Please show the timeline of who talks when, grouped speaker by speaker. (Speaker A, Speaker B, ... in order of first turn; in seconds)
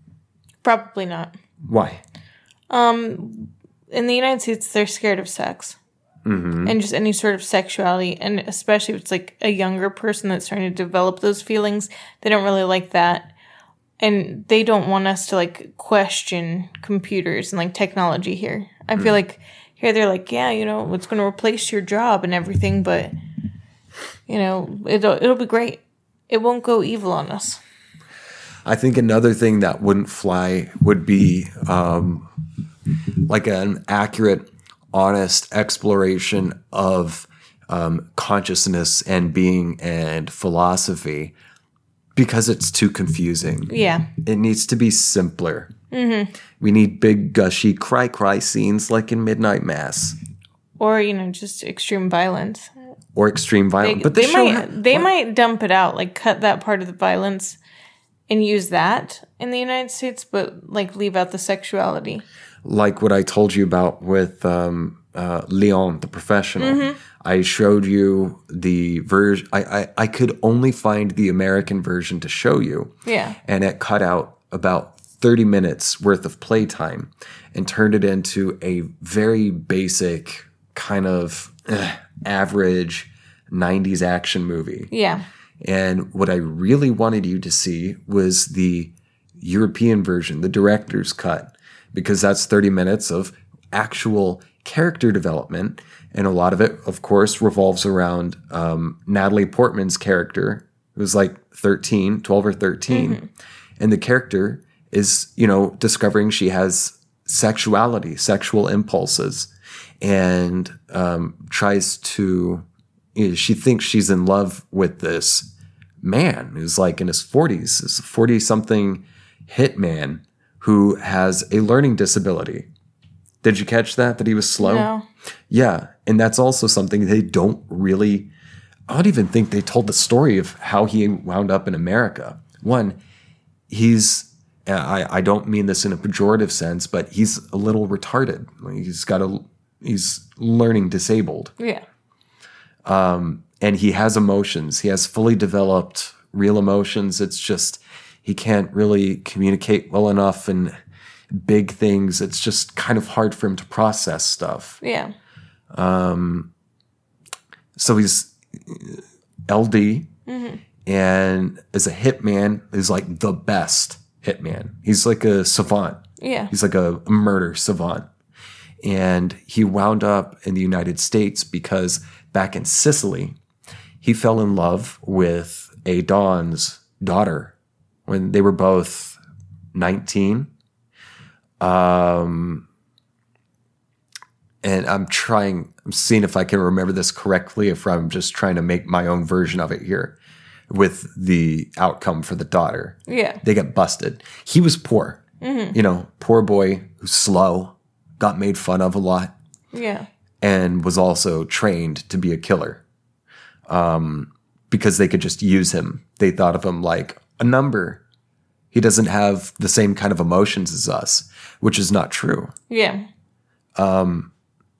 Speaker A: 0.6-1.3, 2.7-5.8, 6.6-13.3, 14.0-23.1, 24.3-27.6, 43.7-44.1, 45.9-46.3, 50.8-52.7, 53.8-57.6, 58.3-62.2, 66.6-67.0, 73.0-73.4, 84.9-85.2, 102.9-103.2, 124.6-125.1, 154.8-155.1, 160.3-160.6, 166.2-166.5, 193.1-193.4, 195.4-195.8, 199.7-200.1, 212.7-213.0
Speaker B: 1.7-2.0, 6.2-6.8, 28.7-32.2, 33.2-41.3, 42.2-45.7, 46.6-50.2, 53.2-55.1, 62.6-84.9, 85.6-103.2, 103.8-109.5, 110.0-115.5, 116.0-122.7, 123.4-124.9, 125.5-128.3, 128.9-133.0, 133.7-141.5, 142.8-150.7, 151.3-154.8, 155.7-156.5, 157.8-160.1, 160.8-168.1, 168.8-173.4, 174.0-177.5, 178.1-179.2, 179.7-180.5, 181.6-182.7, 184.6-190.2, 190.7-195.2, 195.7-199.3, 200.4-202.8, 203.7-208.0, 208.7-212.5, 213.8-214.3